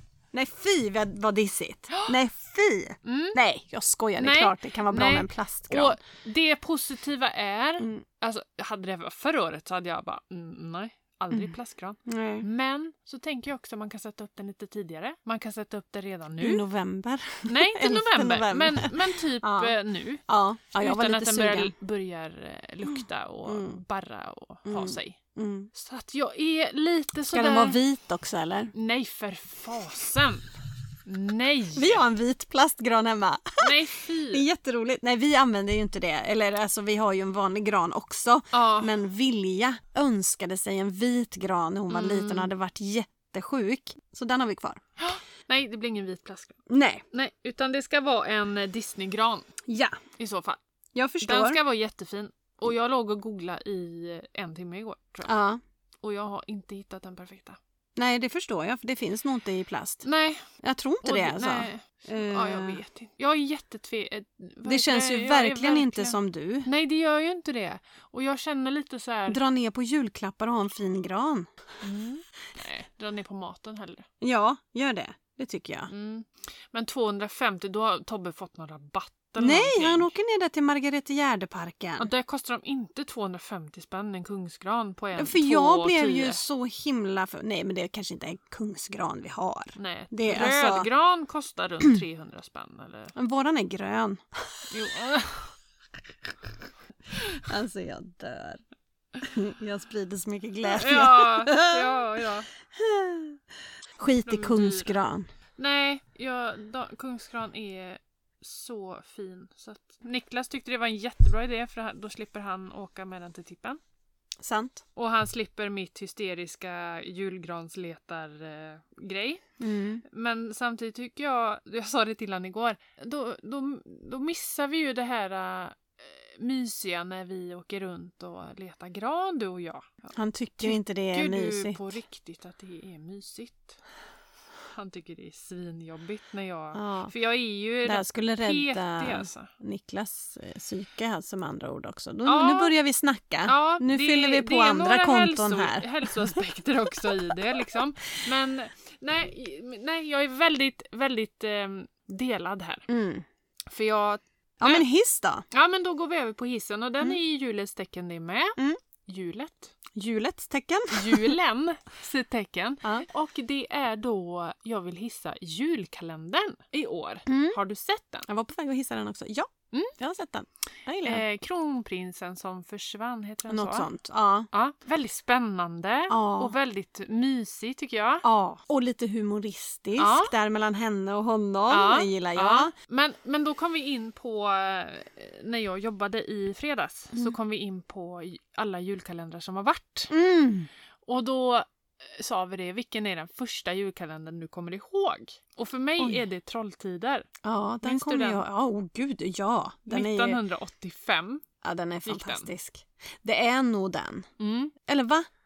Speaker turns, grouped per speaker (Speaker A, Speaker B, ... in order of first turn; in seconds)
Speaker A: 0.3-6.0, 7.8-8.0, 12.1-12.5, 16.4-19.7, 20.3-21.7, 22.9-23.8, 24.6-25.7, 27.3-28.7, 31.7-33.8, 34.3-44.8, 46.7-47.0, 49.7-50.0, 50.9-51.6, 55.2-55.6, 58.0-60.0, 60.6-62.8, 64.6-66.7, 69.3-71.5, 74.2-75.9, 79.4-82.1, 85.1-90.9, 93.1-94.2, 97.4-98.6, 99.2-102.0, 102.7-103.4, 104.0-105.3, 114.4-114.8, 119.6-120.0, 130.1-131.8, 136.7-137.1, 137.8-146.4, 152.9-153.2, 154.6-155.4, 159.9-161.3, 167.3-167.6, 168.3-171.2, 173.5-174.5, 176.1-176.5, 178.2-182.7, 190.1-190.7, 197.4-200.4, 201.6-204.3, 204.8-205.3
Speaker B: 3.0-3.4, 4.2-16.6, 17.5-20.2, 20.8-25.2, 25.7-27.8, 28.7-30.5, 31.0-32.0, 33.6-34.5, 38.5-38.9, 41.9-42.5, 45.0-49.5, 50.1-50.6, 51.2-55.3, 56.0-57.6, 60.0-60.4, 61.0-69.4, 71.8-74.1, 75.9-80.1, 82.0-86.4, 89.8-93.1, 94.7-95.5, 100.6-102.5, 104.2-104.9, 105.6-113.8, 115.0-119.4, 120.1-129.9, 130.6-133.8, 134.7-139.5, 142.2-142.7, 143.4-152.8, 153.7-154.8, 155.5-159.7, 160.9-168.2, 171.0-173.9, 174.5-178.2, 180.0-180.3, 181.7-190.1, 191.0-197.3, 197.8-198.4, 199.9-201.4, 202.1-202.5, 204.4-204.8